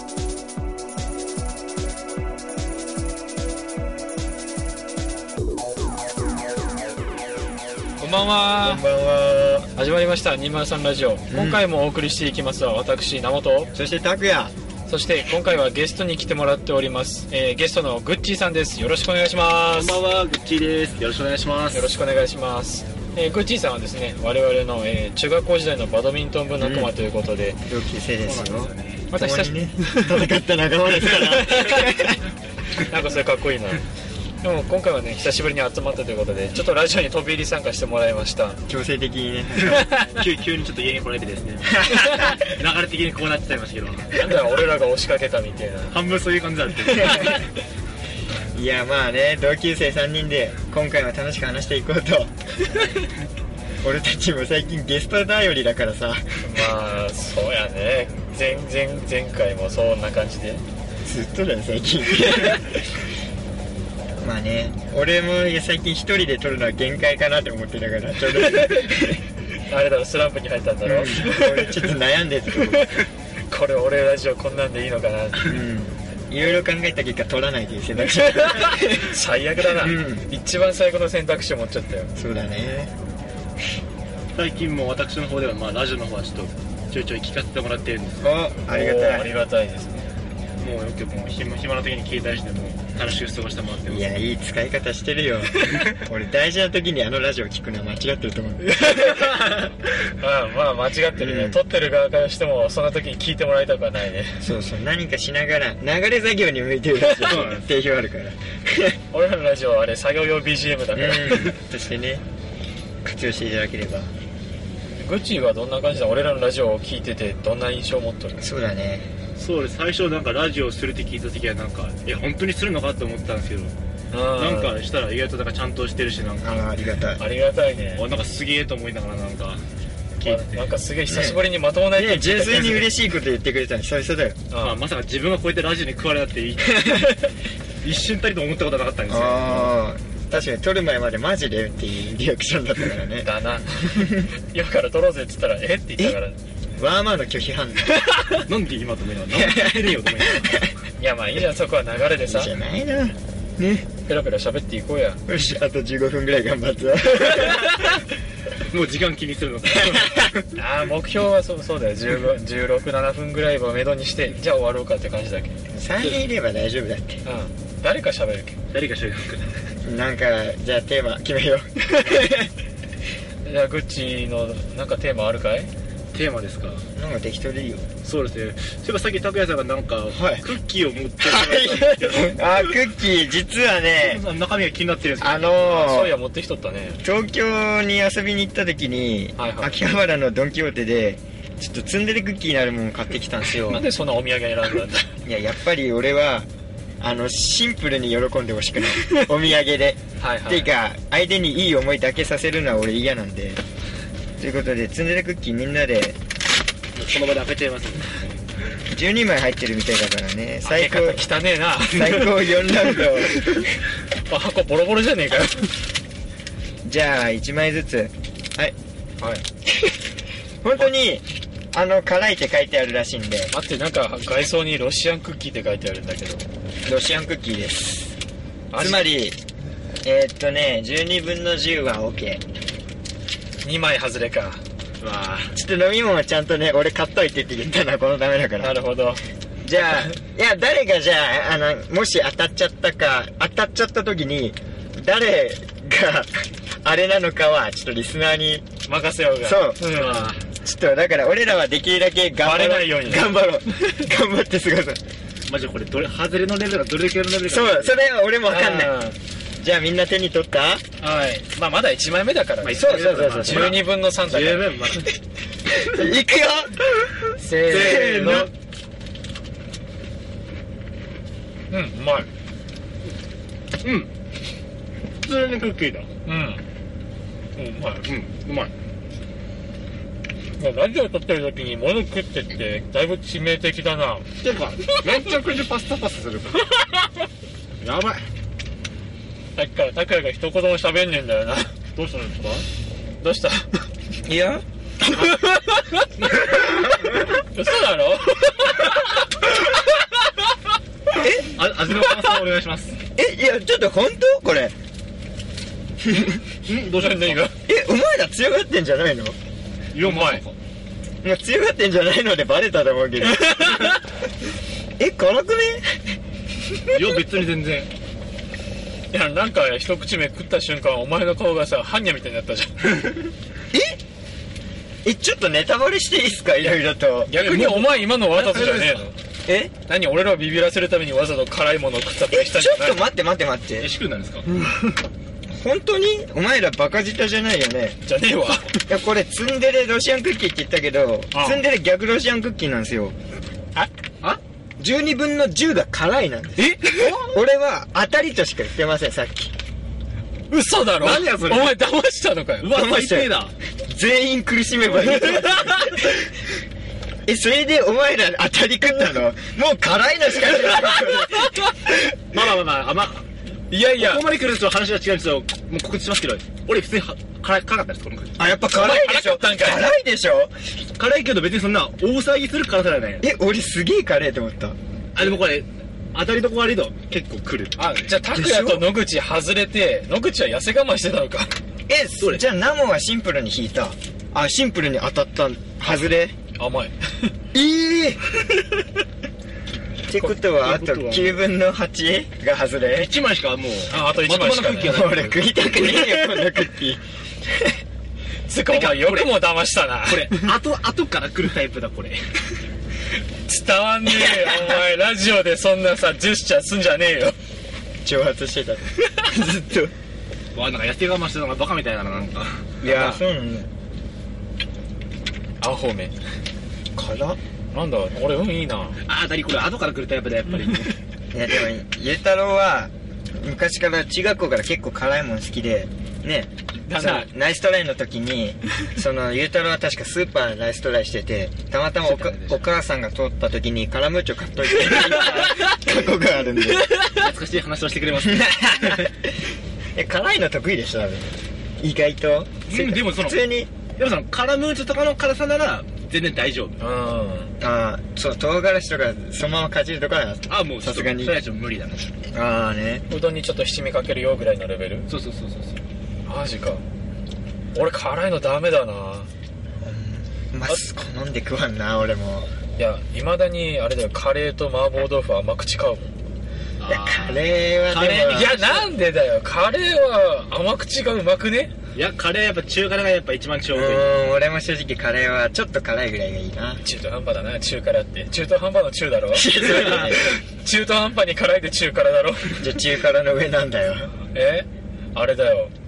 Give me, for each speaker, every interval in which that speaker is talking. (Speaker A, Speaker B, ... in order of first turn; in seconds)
Speaker A: 8.0-8.8, 9.7-13.7, 14.9-20.0, 21.7-27.6, 29.1-30.2, 31.1-31.9, 32.8-33.8, 34.4-38.6, 44.1-46.0, 56.4-60.6, 69.7-71.8, 72.5-75.6, 78.4-82.1, 88.7-90.1, 98.8-99.3, 100.2-104.4, 109.1-111.5, 115.0-118.4, 124.1-124.8, 127.2-128.1, 130.2-132.9, 134.5-134.8, 143.2-146.4, 150.9-152.5, 154.1-155.2, 157.2-157.8, 160.6-165.5, 167.2-168.6, 173.4-175.7, 185.6-187.0, 189.4-189.9, 193.7-195.1, 200.2-200.7, 210.6-212.5, 214.2-215.7, 223.5-226.4, 228.7-229.1, 233.6-234.6, 238.6-239.2, 248.8-250.3, 252.4-253.3, 258.5-259.1, 261.0-264.7, 267.4-268.5, 271.7-272.3, 276.2-276.6, 277.6-278.1, 280.6-284.3, 289.6-291.7, 293.2-293.8, 295.2-296.0, 297.4-299.8, 307.0-307.5, 310.0-310.4, 313.4-314.0, 319.1-322.9, 327.3-329.1, 329.9-333.0, 338.1-338.8, 341.3-341.6, 350.5-352.7, 363.7-364.2, 368.7-369.9, 377.8-381.5, 385.9-387.3, 393.9-395.0, 398.5-400.4, 403.4-407.4, 415.6-416.1, 417.7-419.0, 426.9-427.3, 446.8-447.5, 453.1-455.1, 456.2-456.8, 457.7-459.3, 462.8-466.1, 468.2-471.7, 476.8-482.6, 484.3-485.7
Speaker B: 8.5-9.7, 11.3-11.6, 13.7-14.5, 26.6-26.9, 27.7-32.2, 38.7-40.0, 41.7-42.4, 48.5-52.3, 53.8-56.4, 61.0-62.8, 64.2-69.2, 70.8-73.0, 75.4-79.1, 79.7-80.3, 82.2-82.9, 88.2-89.3, 93.9-99.5, 101.1-101.6, 104.4-109.0, 110.9-112.2, 113.0-114.1, 118.4-119.1, 126.4-127.2, 131.1-134.4, 136.6-137.2, 139.1-143.3, 143.8-144.3, 146.8-148.0, 149.3-150.7, 152.2-153.8, 155.2-158.0, 159.9-160.3, 165.7-167.2, 169.8-172.5, 176.9-177.9, 180.1-180.5, 181.2-184.2, 185.2-186.2, 187.0-193.8, 195.2-196.5, 197.0-203.6, 204.4-206.2, 208.9-211.3, 211.8-213.6, 216.8-218.7, 219.7-220.0, 220.6-223.5, 226.8-228.1, 228.7-229.4, 230.0-232.4, 235.5-238.8, 239.6-248.6, 249.4-255.0, 257.4-259.0, 259.6-260.8, 262.9-263.8, 265.7-268.5, 294.2-294.6, 301.2-301.4, 303.1-304.7, 306.0-306.4, 307.6-309.4, 311.2-313.9, 315.0-316.0, 323.7-324.0, 325.0-327.3, 329.4-329.7, 332.3-333.9, 335.5-338.0, 338.8-343.1, 344.8-349.5, 352.6-356.3, 357.2-361.7, 368.4-370.5, 373.2-375.4, 378.2-378.9, 381.9-386.3, 387.5-388.2, 390.1-393.1, 394.8-397.7, 404.2-404.8, 408.0-409.9, 412.8-413.7, 416.9-417.4, 421.3-437.0, 438.2-439.3, 439.9-443.7, 447.6-451.3, 452.3-453.1, 459.8-462.5, 466.9-468.6, 473.7-476.8, 479.3-480.4, 482.6-484.1
Speaker C: 19.7-21.9, 28.2-29.1, 39.8-44.4, 45.9-47.5, 84.3-88.3, 90.6-94.1, 107.2-107.7, 119.4-123.7, 124.3-126.7, 128.0-129.6, 130.2-130.7, 134.6-137.3, 137.8-139.8, 148.4-150.7, 158.7-160.4, 166.0-166.2, 168.7-169.5, 176.1-176.8, 178.0-182.4, 184.0-185.8, 206.9-208.4, 235.0-235.5, 249.9-250.4, 255.5-258.0, 262.6-265.1, 267.7-268.5, 273.8-274.1, 275.2-276.1, 278.1-278.7, 284.4-286.7, 287.8-288.2, 291.9-292.6, 296.2-296.8, 301.4-303.0, 306.6-307.5, 309.9-310.6, 316.9-317.9, 327.3-329.1, 333.8-334.4, 346.6-347.3, 351.0-351.8, 352.6-353.5, 362.3-368.6, 370.9-373.2, 375.1-378.2, 390.1-391.4, 392.9-395.8, 398.6-399.4, 400.0-402.2, 410.5-413.2, 419.0-421.0, 432.0-432.6, 435.2-435.5, 437.1-439.0, 442.7-446.8, 450.5-452.1, 455.1-455.8, 466.8-468.9, 471.9-474.2